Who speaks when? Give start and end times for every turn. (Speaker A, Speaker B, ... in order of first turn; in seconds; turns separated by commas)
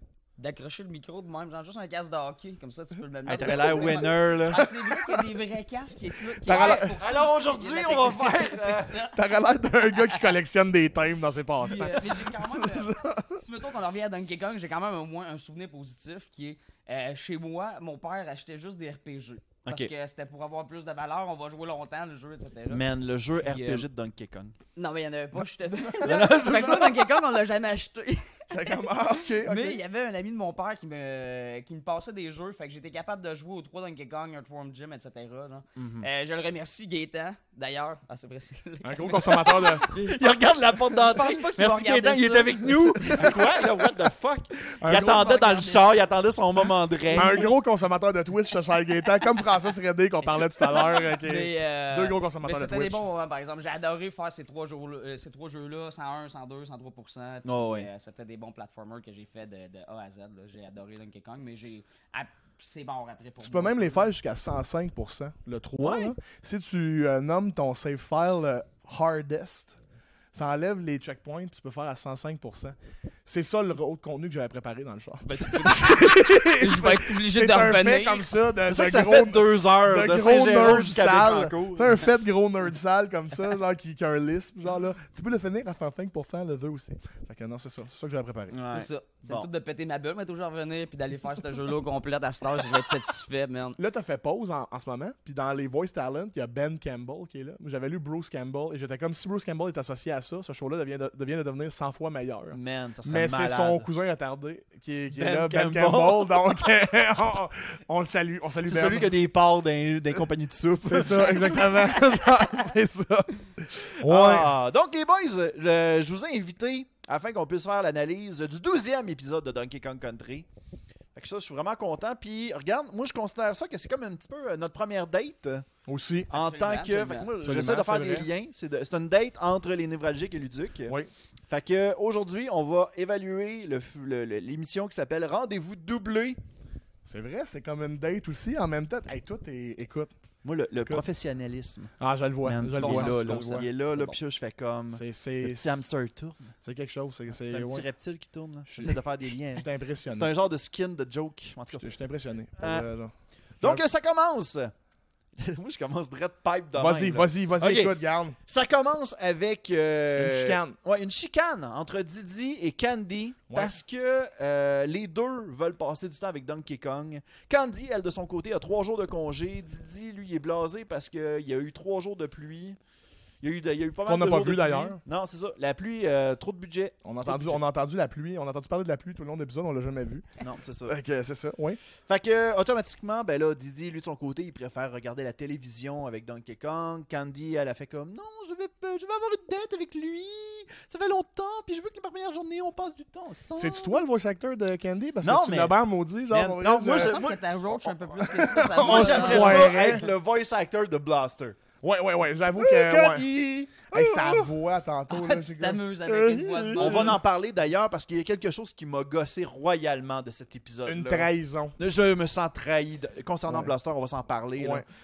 Speaker A: 0.4-9.2, Speaker B: 3.2-4.7, Speaker C: 4.6-5.1, Speaker C: 6.4-6.9, Speaker B: 6.5-8.9, Speaker C: 9.1-13.4, Speaker A: 9.9-10.3, Speaker A: 11.6-22.9, Speaker B: 19.6-19.9, Speaker B: 22.7-24.6, Speaker A: 23.4-23.8, Speaker A: 24.8-43.8, Speaker B: 26.0-27.1, Speaker C: 26.1-26.6, Speaker C: 28.5-29.8, Speaker B: 35.8-36.1, Speaker C: 38.8-39.9, Speaker B: 39.8-47.5, Speaker C: 44.8-45.2, Speaker A: 44.9-45.9, Speaker A: 47.1-47.5, Speaker C: 47.1-53.0, Speaker A: 50.7-64.1, Speaker B: 57.4-57.9, Speaker C: 63.4-69.8, Speaker B: 65.8-66.1, Speaker C: 70.3-72.7, Speaker C: 73.2-88.6, Speaker A: 75.3-78.3, Speaker B: 78.6-82.1, Speaker B: 88.5-89.5, Speaker A: 88.7-93.8, Speaker C: 93.8-109.2, Speaker B: 102.5-103.9, Speaker B: 105.1-106.7, Speaker B: 108.6-112.0, Speaker C: 110.8-114.5, Speaker B: 114.0-120.5, Speaker B: 121.1-125.7, Speaker C: 125.9-126.3, Speaker B: 126.3-130.9, Speaker A: 126.3-127.3, Speaker C: 127.4-128.3, Speaker B: 131.5-136.4, Speaker C: 137.1-140.1, Speaker B: 140.4-141.9, Speaker C: 142.0-143.7, Speaker B: 142.4-146.5, Speaker A: 142.8-143.2, Speaker C: 144.9-145.8, Speaker C: 146.6-147.9, Speaker B: 147.3-151.9, Speaker C: 148.7-150.3, Speaker C: 151.7-153.8, Speaker B: 152.6-152.9, Speaker B: 153.6-154.7, Speaker B: 155.4-172.8, Speaker C: 156.7-158.3, Speaker C: 160.1-160.8, Speaker C: 163.5-163.8, Speaker B: 173.4-177.6, Speaker C: 174.1-175.0, Speaker C: 177.0-180.2, Speaker B: 180.4-181.0, Speaker C: 180.8-181.8, Speaker B: 182.1-194.0, Speaker C: 193.6-197.1, Speaker B: 195.2-201.6, Speaker A: 197.0-199.8, Speaker C: 198.2-200.1, Speaker C: 201.8-203.3, Speaker B: 202.6-204.5, Speaker C: 203.8-207.2, Speaker A: 205.1-207.2, Speaker B: 206.8-214.8, Speaker C: 210.8-211.7, Speaker C: 213.5-213.7, Speaker C: 214.6-214.8